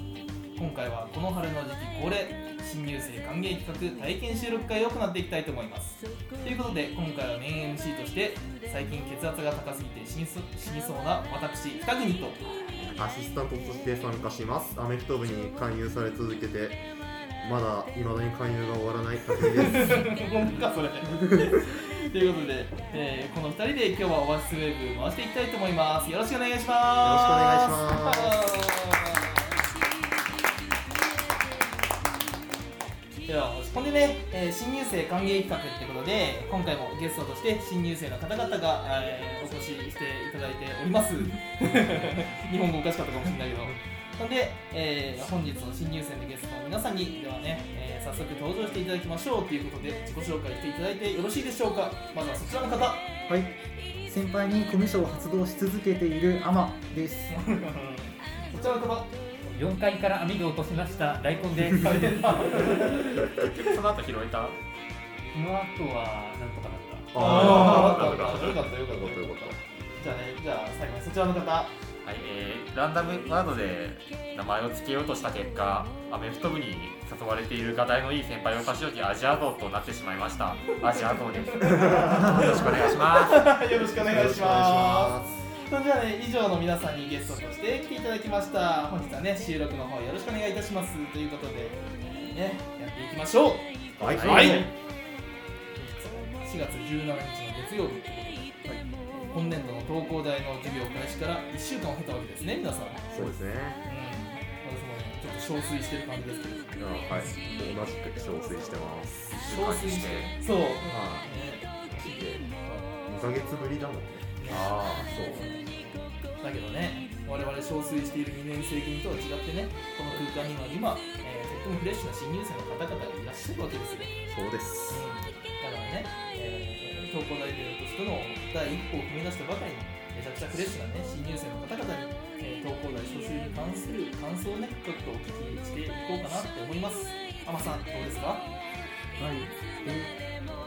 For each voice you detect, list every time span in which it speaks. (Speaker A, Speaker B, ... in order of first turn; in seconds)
Speaker A: 0.5-12.4, 19.4-29.6, 33.2-53.0, 57.3-59.1, 61.6-63.2, 67.1-71.7, 81.5-94.7, 95.8-103.3, 103.8-106.8, 109.3-111.7, 112.6-112.9, 114.4-124.1, 124.9-138.5
Speaker B: 12.8-16.8, 17.4-20.2, 21.2-21.6, 27.0-28.5, 67.1-69.6, 81.7-82.9, 83.7-85.4, 94.0-94.7, 103.1-103.8, 106.8-109.3, 110.8-111.3, 111.9-115.5, 124.3-125.1
Speaker C: 53.3-57.4, 139.2-140.2
Speaker D: 59.4-62.8, 65.3-67.1
Speaker E: 62.7-64.6, 67.2-68.7, 72.0-83.5, 109.4-110.3, 114.5-115.1